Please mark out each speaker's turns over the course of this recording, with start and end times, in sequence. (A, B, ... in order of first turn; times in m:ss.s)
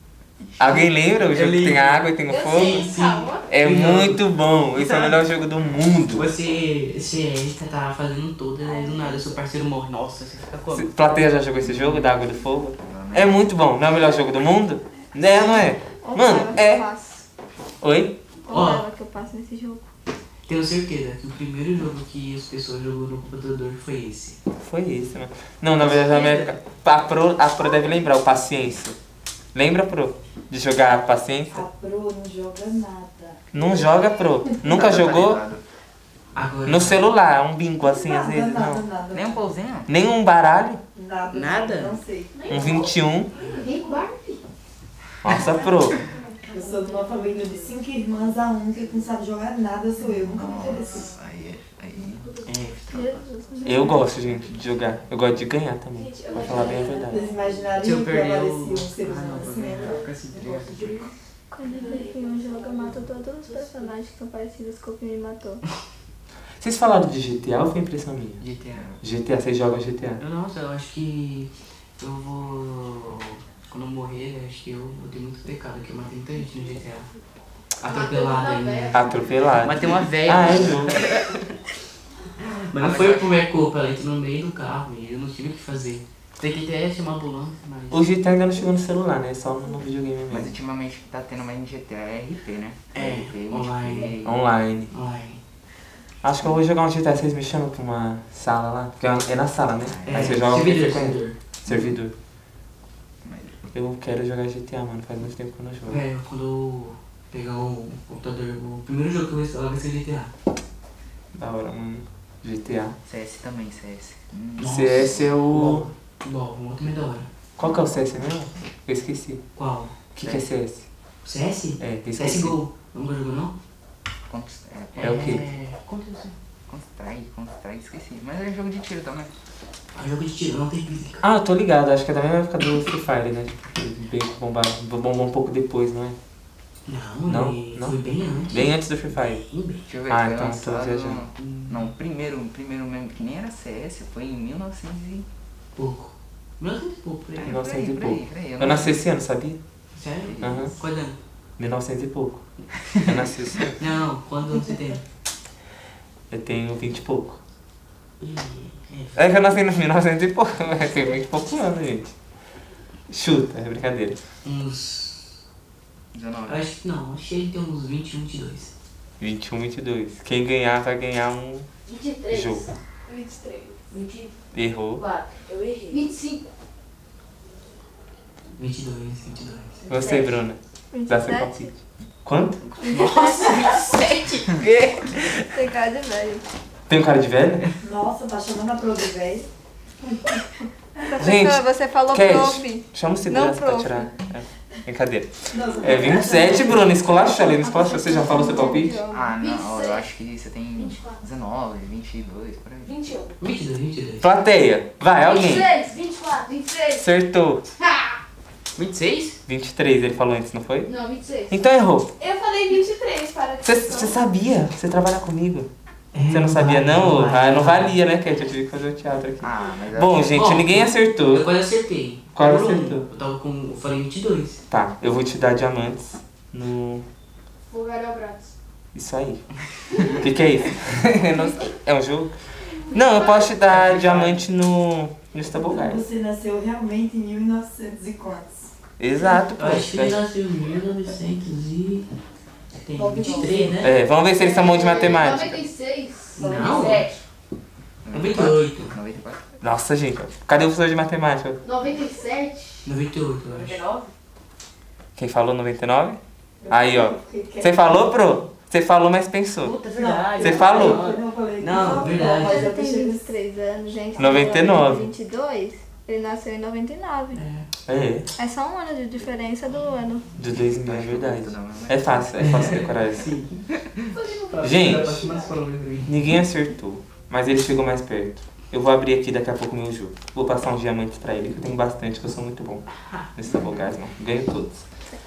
0:00.4-0:01.2 A
0:00.6-0:02.9 B
0:01.3-0:05.2 C
0:02.3-0:03.5 D
0:03.5-0:06.3 B
0:06.1-0:11.0 C
0:10.7-0:16.9 B
0:11.7-0:12.0 C
0:12.8-0:13.5 A
0:16.0-0:17.2 E
0:17.8-0:18.2 B
0:18.4-0:19.9 E
0:18.5-0:18.9 C
0:20.5-0:24.4 C
0:24.6-0:29.0 B
0:25.8-0:26.5 C
0:29.5-0:31.6 B
0:31.5-0:33.4 F
0:33.5-0:35.4 B
0:34.6-0:35.6 A
0:36.3-0:37.0 C
0:36.6-0:38.9 B
0:37.8-0:39.5 F
0:39.1-0:39.9 A
0:39.9-0:40.8 B
0:41.0-0:42.5 F
0:41.3-0:42.0 C
0:42.4-0:42.9 D
0:42.5-0:43.3 B
0:43.4-0:44.4 D
0:45.2-0:46.0 B
0:46.2-0:47.2 D
0:46.5-0:51.1 F
0:50.0-0:52.4 A
0:52.4-0:53.3 C
0:52.9-0:54.2 E
0:53.6-0:57.3 B
0:56.0-0:57.3 D
0:56.3-0:56.6 E
0:57.0-1:00.1 F
0:57.8-1:01.1 C
0:59.8-1:01.1 A
1:00.7-1:01.0 D
1:01.5-1:05.6 E
1:01.7-1:03.9 D
1:06.6-1:08.4 B
1:08.4-1:08.8 C
1:08.7-1:09.0 A
1:09.0-1:10.2 B
1:10.2-1:17.1 C
1:17.8-1:21.4 C
1:17.8-1:19.0 D
1:18.9-1:21.0 B
1:20.5-1:20.8 A
1:22.4-1:28.1 C
1:22.8-1:23.4 A
1:27.9-1:30.5 B
1:30.3-1:34.4 A
1:32.9-1:34.2 C
1:34.2-1:34.9 B
1:34.9-1:35.4 C
1:36.2-1:42.1 B
1:39.8-1:40.4 A
1:40.0-1:41.4 C
1:43.2-1:43.6 A
1:43.7-1:46.0 B
1:45.9-1:50.3 C
1:51.3-1:53.0 B
1:53.0-1:55.3 A
1:54.6-1:57.3 C
1:54.6-1:55.9 B
1:57.6-1:59.4 B
1:59.6-1:59.9 C
2:00.2-2:00.9 B
2:00.2-2:00.5 A
2:01.2-2:03.5 C
2:01.8-2:02.6 B
2:04.3-2:05.3 A
2:04.9-2:06.4 C
2:05.0-2:05.4 B
2:06.7-2:09.3 A
2:09.9-2:11.2 C
2:11.2-2:16.2 B
2:16.9-2:19.8 C
2:17.3-2:18.0 B
2:18.5-2:19.4 B
2:19.8-2:25.3 A
2:20.1-2:21.2 B
2:21.4-2:21.9 C
2:25.8-2:27.6 C
2:27.4-2:29.6 B
2:27.4-2:29.1 A
2:29.9-2:31.2 C
2:30.2-2:30.7 A
2:30.4-2:30.7 B
2:31.6-2:32.4 B
2:33.0-2:33.8 B
2:33.8-2:35.0 C
2:36.3-2:37.4 B
2:38.2-2:39.2 C
2:39.2-2:42.2 B
2:43.1-2:44.2 B
2:44.4-2:45.4 C
2:46.1-2:46.7 A
2:46.5-2:48.7 C
2:49.2-2:51.7 B
2:51.9-2:54.3 D
2:52.3-2:52.7 B
2:54.5-2:55.1 B
2:55.0-2:56.4 D
2:58.6-2:59.9 C
2:59.9-3:00.4 D
2:59.9-3:01.7 B
3:00.9-3:01.7 E
3:02.2-3:02.6 B
3:02.8-3:04.5 E
3:02.9-3:03.7 C
3:03.0-3:04.2 D
3:04.6-3:05.4 B
3:05.4-3:06.4 E
3:06.9-3:07.7 B
3:07.8-3:09.5 F
3:11.0-3:14.1 E
3:11.2-3:19.0 B
3:15.5-3:17.2 F
3:17.4-3:19.4 E
3:19.1-3:23.0 A
3:19.4-3:20.1 D
3:20.8-3:21.2 D
3:22.8-3:23.4 D
3:23.4-3:24.3 C
3:24.2-3:25.7 B
3:25.2-3:27.0 D
3:26.9-3:27.6 B
3:27.8-3:28.1 D
3:28.8-3:29.4 C
3:29.5-3:30.9 B
3:30.8-3:31.6 D
3:31.5-3:32.1 B
3:32.2-3:34.2 D
3:33.6-3:35.7 B
3:36.1-3:38.0 C
3:36.3-3:41.5 B
3:39.4-3:40.5 A
3:40.3-3:44.6 C
3:42.4-3:43.0 B
3:44.7-3:47.1 B
3:47.7-3:48.5 D
3:48.9-3:49.5 B
3:50.1-3:56.0 B
3:53.6-3:54.5 C
3:55.6-3:58.7 F
3:59.0-4:00.2 B
3:59.6-4:02.1 C
4:02.8-4:03.9 C
4:02.9-4:03.8 F
4:03.8-4:05.7 B
4:04.4-4:07.2 D
4:06.4-4:07.1 C
4:06.4-4:07.1 F
4:08.0-4:09.4 A
4:08.1-4:09.0 C
4:09.6-4:11.6 B
4:11.6-4:12.9 D
4:12.8-4:13.8 C
4:13.5-4:14.1 D
4:15.2-4:19.8 B
4:16.6-4:18.0 F
4:19.6-4:22.7 C
4:19.9-4:23.3 F
4:20.4-4:21.0 B
4:22.3-4:27.4 E
4:24.2-4:25.1 B
4:27.3-4:27.7 C
4:27.9-4:28.3 B
4:28.4-4:30.3 E
4:30.4-4:33.3 B
4:30.5-4:32.4 A
4:32.4-4:33.6 C
4:34.2-4:35.5 D
4:34.5-4:36.2 C
4:34.6-4:35.2 B
4:36.1-4:44.8 B
4:43.4-4:43.9 A